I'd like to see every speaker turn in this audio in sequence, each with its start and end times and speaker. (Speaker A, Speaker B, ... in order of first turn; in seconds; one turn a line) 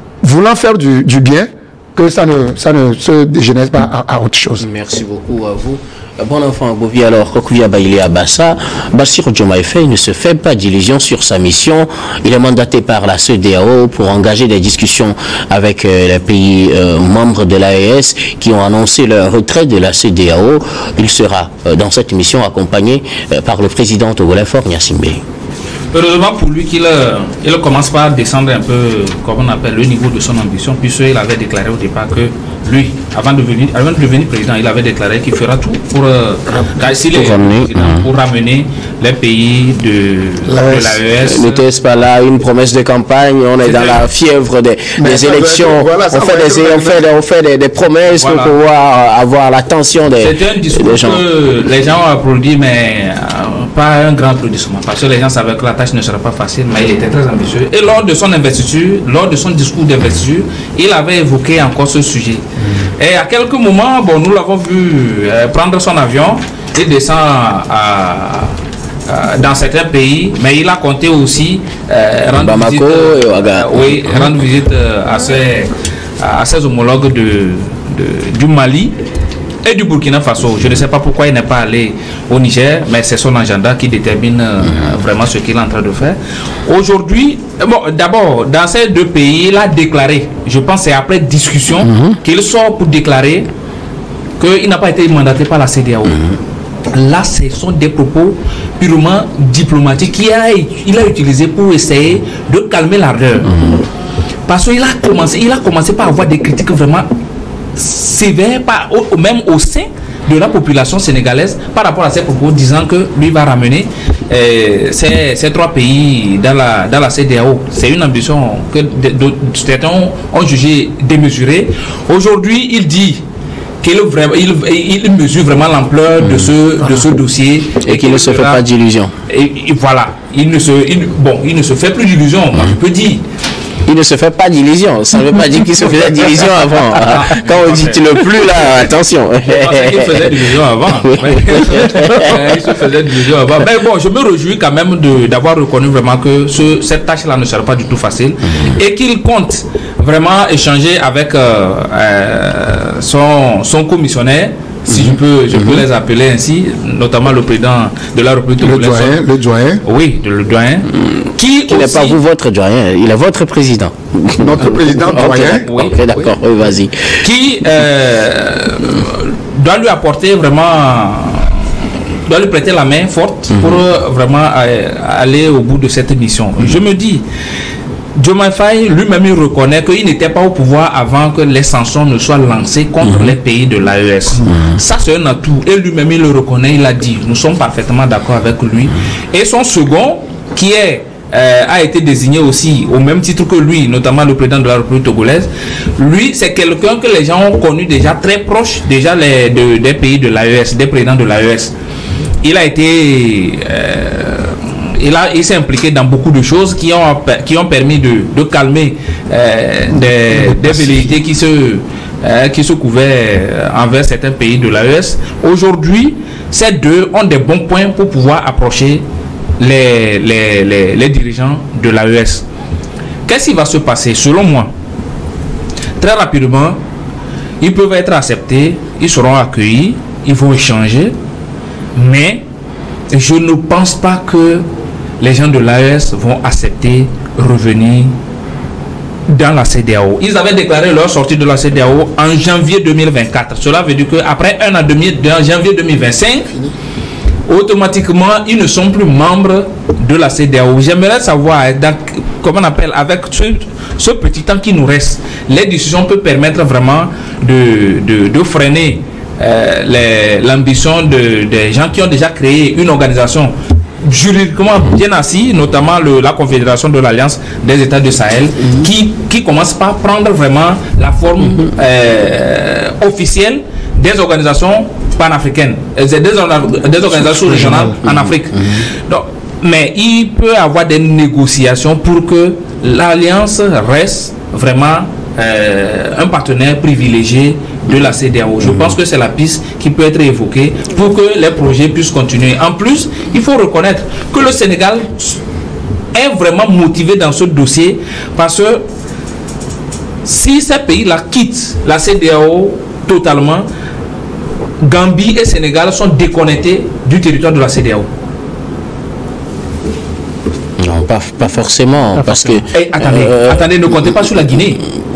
Speaker A: 0.2-4.7
Speaker B: 4.6-25.2
Speaker C: 25.9-41.6
Speaker B: 37.0-38.1
Speaker A: 40.5-41.0
Speaker B: 41.2-51.2
Speaker C: 43.6-44.1
Speaker A: 45.0-47.1
Speaker C: 48.1-48.6
Speaker C: 50.2-62.4
Speaker C: 63.0-68.6
Speaker C: 69.1-79.0
Speaker B: 72.4-74.2
Speaker C: 79.6-93.5
Speaker B: 91.8-92.2
Speaker C: 94.4-96.4
Speaker C: 96.9-103.6
Speaker C: 104.5-107.1
Speaker C: 107.8-123.2
Speaker C: 123.8-128.6
Speaker B: 126.2-126.5
Speaker B: 127.8-129.1
Speaker C: 129.3-133.2
Speaker B: 133.9-142.4
Speaker C: 136.9-138.8
Speaker C: 139.4-159.2
Speaker B: 154.9-155.8
Speaker A: 158.6-159.8
Speaker C: 159.8-162.2
Speaker B: 161.7-167.2
Speaker A: 164.4-165.7
Speaker C: 165.1-166.4
Speaker C: 167.2-171.7
Speaker C: 172.3-177.2
Speaker B: 173.5-173.8
Speaker C: 178.2-201.7
Speaker C: 202.4-219.0
Speaker C: 219.6-222.4
Speaker C: 223.3-224.7
Speaker C: 226.0-226.8
Speaker C: 227.6-231.1
Speaker C: 231.9-232.4
Speaker C: 233.1-234.7
Speaker C: 235.2-238.1
Speaker C: 239.3-246.5
Speaker C: 247.5-295.4
Speaker B: 278.0-278.9
Speaker B: 288.6-288.9
Speaker C: 296.1-298.9
Speaker C: 300.2-303.7
Speaker C: 304.8-308.1
Speaker B: 310.8-314.1
Speaker C: 312.7-314.8